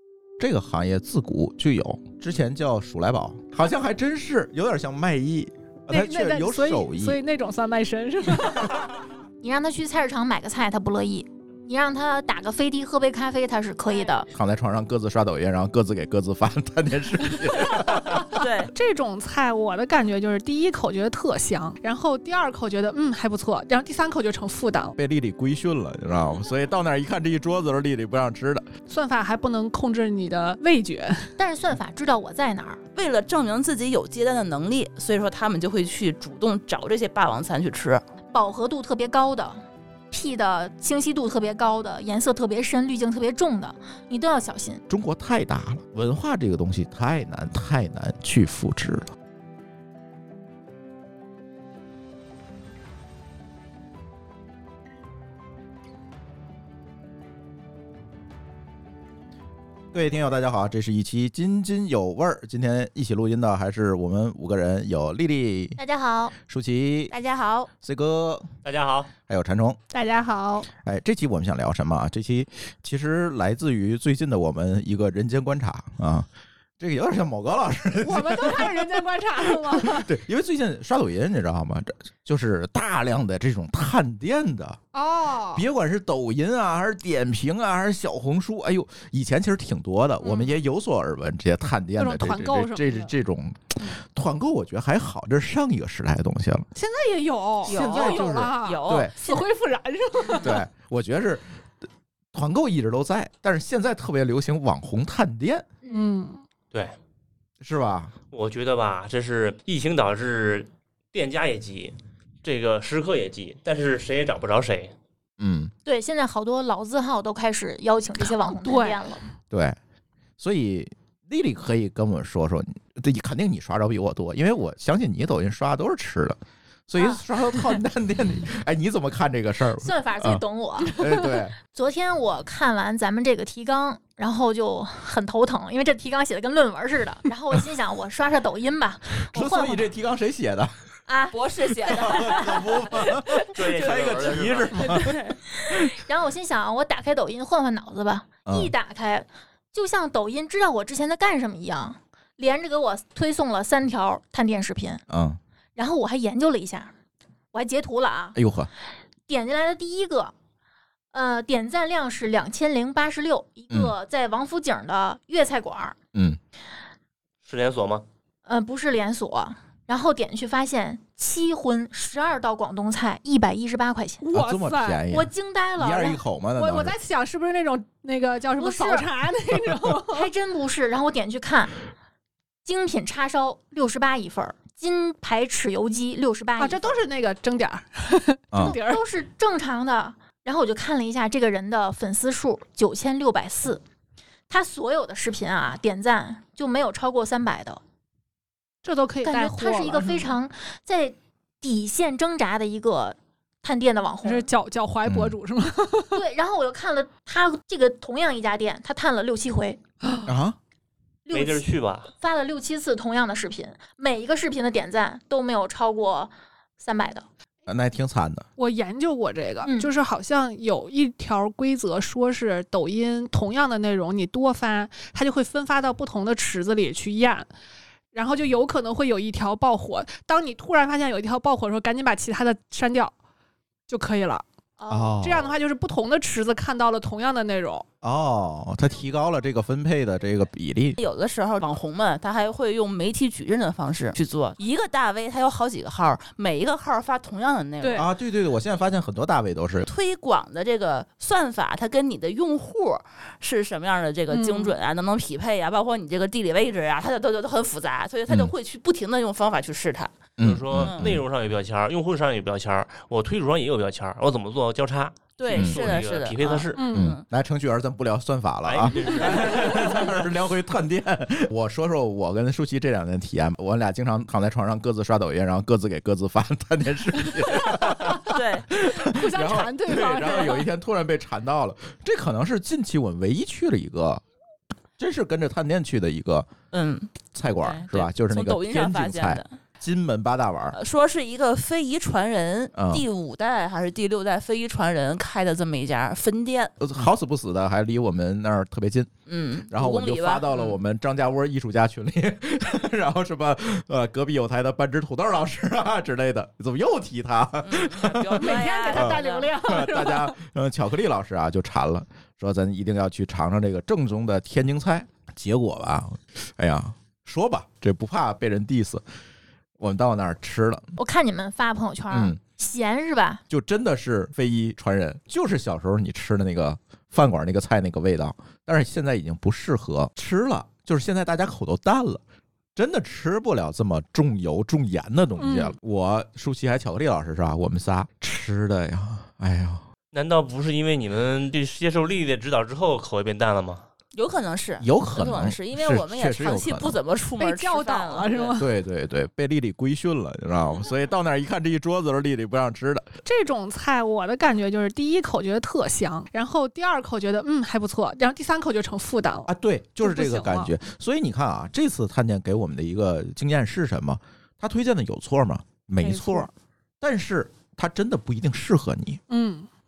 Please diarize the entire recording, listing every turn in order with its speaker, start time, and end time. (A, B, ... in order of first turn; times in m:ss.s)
0:00.4-0:07.2 A
0:05.9-0:09.0 B
0:09.4-0:14.3 C
0:14.3-0:18.3 A
0:17.6-0:25.0 B
0:18.3-0:18.7 D
0:25.0-0:28.7 A
0:28.9-0:31.4 B
0:31.4-0:32.8 C
0:32.9-0:38.0 D
0:38.3-0:44.8 C
0:44.9-0:49.1 A
0:59.9-1:05.8 A
1:05.8-1:06.3 C
1:06.4-1:07.1 A
1:07.1-1:07.7 D
1:07.8-1:08.5 A
1:08.6-1:09.1 E
1:09.3-1:09.8 A
1:09.9-1:10.7 B
1:10.8-1:16.3 A
1:16.8-1:18.9 A
1:18.0-1:20.1 B
1:19.6-1:24.8 A
1:24.9-1:25.6 B
1:25.5-1:36.7 A
1:30.2-1:30.5 B
1:32.0-1:33.1 B
1:36.7-1:40.6 B
1:37.6-1:39.1 A
1:37.7-1:39.5 D
1:40.4-1:45.6 A
1:45.8-1:46.1 C
1:45.9-1:46.4 B
1:46.7-1:47.0 E
1:47.6-1:48.1 A
1:48.3-1:54.9 E
1:55.4-1:55.7 A
1:55.8-1:59.2 C
1:58.2-1:59.0 B
1:59.5-1:59.8 A
2:00.4-2:11.6 A
2:07.0-2:07.2 C
2:09.8-2:19.9 C
2:19.2-2:20.7 A
2:21.1-2:22.9 C
2:21.3-2:23.0 D
2:21.9-2:25.1 A
2:23.5-2:24.9 E
2:24.0-2:24.2 D
2:24.8-2:25.4 B
2:25.7-2:35.0 C
2:28.4-2:28.7 A
2:35.1-2:35.4 A
2:35.8-2:36.9 C
2:37.5-2:38.4 C
2:38.3-2:38.7 A
2:39.3-2:40.3 C
2:41.1-2:46.0 C
2:46.1-2:46.4 A
2:47.4-2:48.0 E
2:48.4-2:54.2 C
2:54.2-2:55.0 B
2:54.3-2:57.0 A
2:55.1-2:56.2 C
2:56.5-3:00.3 B
2:58.6-2:59.1 C
3:00.0-3:01.7 C
3:02.6-3:06.9 C
3:06.6-3:09.0 B
3:08.5-3:08.8 A
3:08.6-3:13.8 C
3:14.5-3:17.8 C
3:18.8-3:20.3 B
3:19.2-3:24.5 C
3:24.2-3:26.2 B
3:25.0-3:25.4 A
3:26.1-3:29.8 C
3:30.0-3:30.3 B
3:30.2-3:30.6 A
3:31.2-3:37.2 C
3:31.3-3:32.1 E
3:37.7-3:38.4 A
3:38.6-3:47.5 B
3:39.6-3:39.9 C
3:48.1-3:53.1 B
3:53.9-3:54.4 B
3:54.8-3:55.2 C
3:54.9-3:55.5 A
3:55.2-3:57.8 B
3:58.0-4:01.0 A
4:01.0-4:08.1 D
4:07.8-4:08.1 B
4:08.0-4:09.9 A
4:09.8-4:20.1 D
4:14.3-4:14.8 B
4:18.3-4:18.5 A
4:20.4-4:21.2 A
4:20.4-4:26.8 E
4:20.8-4:21.1 D
4:25.4-4:27.2 D
4:25.5-4:25.8 A
4:26.8-4:27.1 B
4:26.9-4:44.2 A
4:28.6-4:30.2 E
4:37.6-4:38.3 B
4:38.2-4:38.7 D
4:38.9-4:40.7 B
4:45.0-4:46.5 A
4:46.7-4:49.5 D
4:47.3-4:50.8 A
4:50.7-4:56.7 D
4:52.8-4:53.0 A
4:56.8-4:59.1 A
4:59.3-5:00.8 D
4:59.7-5:19.0 A
5:07.6-5:09.5 D
5:08.4-5:10.3 B
5:19.8-5:21.0 A
5:21.0-5:23.4 C
5:22.1-5:22.4 A
5:23.5-5:32.2 A
5:32.8-5:39.8 A
5:35.4-5:35.7 B
5:40.1-5:43.8 E
5:44.1-5:48.6 D
5:44.8-5:47.0 A
5:47.4-5:48.7 B
5:48.6-5:53.1 A
5:53.2-6:00.7 B
5:59.4-6:06.5 A
6:06.0-6:06.5 B
6:07.0-6:09.2 A
6:09.3-6:09.7 B